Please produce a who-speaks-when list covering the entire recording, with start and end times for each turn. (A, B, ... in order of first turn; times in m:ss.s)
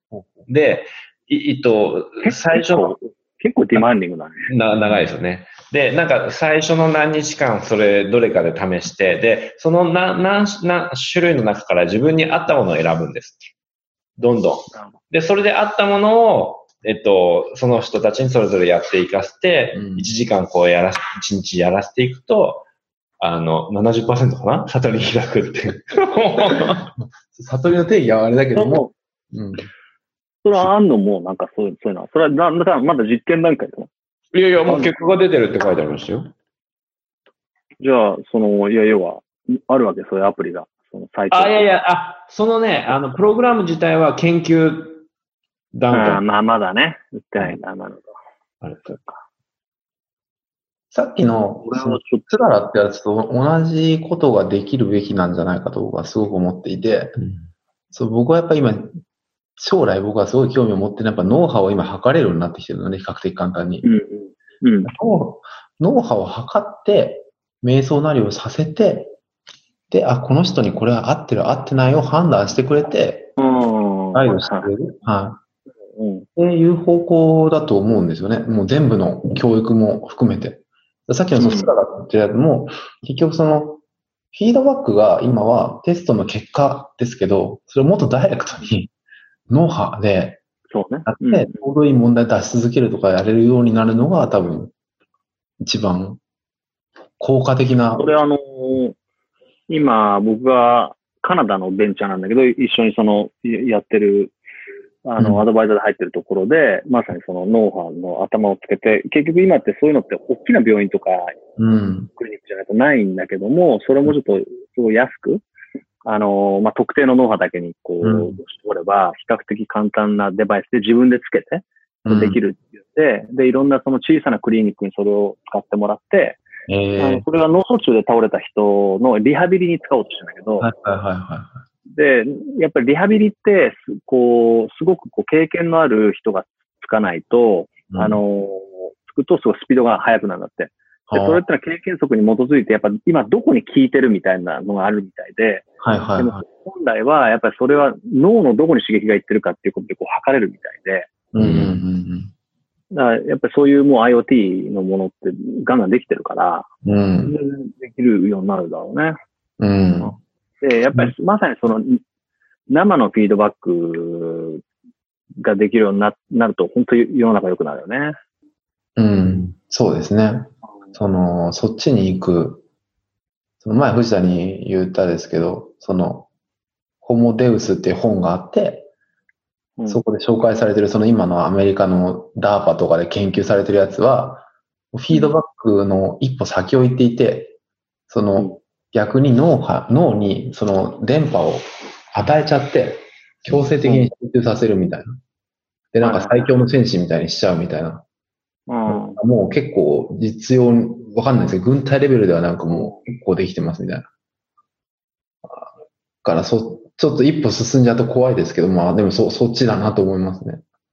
0:00.1-0:00.5 A
0:00.5-0:03.0 B
0:02.2-0:04.5 C
0:04.5-0:13.5 B
0:14.2-0:22.6 B
0:19.7-0:20.1 A
0:23.2-0:26.9 B
0:27.2-0:29.7 A
0:28.5-0:28.9 C
0:30.4-0:33.9 C
0:34.3-0:36.3 B
0:34.6-0:35.0 C
0:37.8-0:41.8 C
0:41.3-0:45.0 B
0:45.7-0:46.2 B
0:45.9-0:48.1 C
0:48.6-0:48.9 B
0:48.9-0:49.2 C
0:50.9-0:57.2 A
0:51.6-0:52.4 C
0:57.2-0:57.5 B
0:57.9-0:59.0 A
0:59.6-1:03.9 A
1:03.8-1:04.9 C
1:04.8-1:09.1 A
1:09.9-1:13.3 A
1:13.4-1:14.7 C
1:14.1-1:15.4 A
1:15.9-1:16.3 C
1:16.4-1:23.8 A
1:21.4-1:21.7 C
1:24.3-1:28.9 A
1:29.5-1:30.4 A
1:30.7-1:31.6 C
1:31.0-1:34.7 A
1:35.6-1:36.2 A
1:37.2-1:38.2 A
1:38.0-1:39.0 C
1:39.7-1:44.3 C
1:45.0-1:51.3 C
1:45.2-1:45.4 A
1:51.6-1:52.1 A
1:52.2-1:55.4 C
1:56.0-2:06.4 C
1:58.0-1:58.4 A
2:02.0-2:02.4 A
2:06.7-2:07.2 A
2:07.0-2:10.7 C
2:10.6-2:11.6 A
2:12.0-2:25.6 C
2:17.9-2:18.2 A
2:21.1-2:21.4 A
2:25.8-2:26.4 A
2:26.2-2:31.1 C
2:31.3-2:32.3 A
2:31.4-2:31.8 B
2:32.9-2:36.7 C
2:36.8-2:37.3 A
2:37.2-2:39.2 C
2:39.6-2:40.2 A
2:40.0-2:42.0 C
2:42.7-2:44.6 C
2:45.4-2:48.2 C
2:49.0-2:52.6 A
2:53.6-2:56.3 A
2:57.0-2:58.9 A
2:59.8-3:00.0 C
2:59.9-3:07.5 A
3:08.1-3:15.2 A
3:13.8-3:14.1 C
3:15.9-3:18.0 A
3:16.0-3:16.5 C
3:18.7-3:19.2 C
3:18.9-3:24.1 A
3:22.7-3:23.0 C
3:26.2-3:30.6 A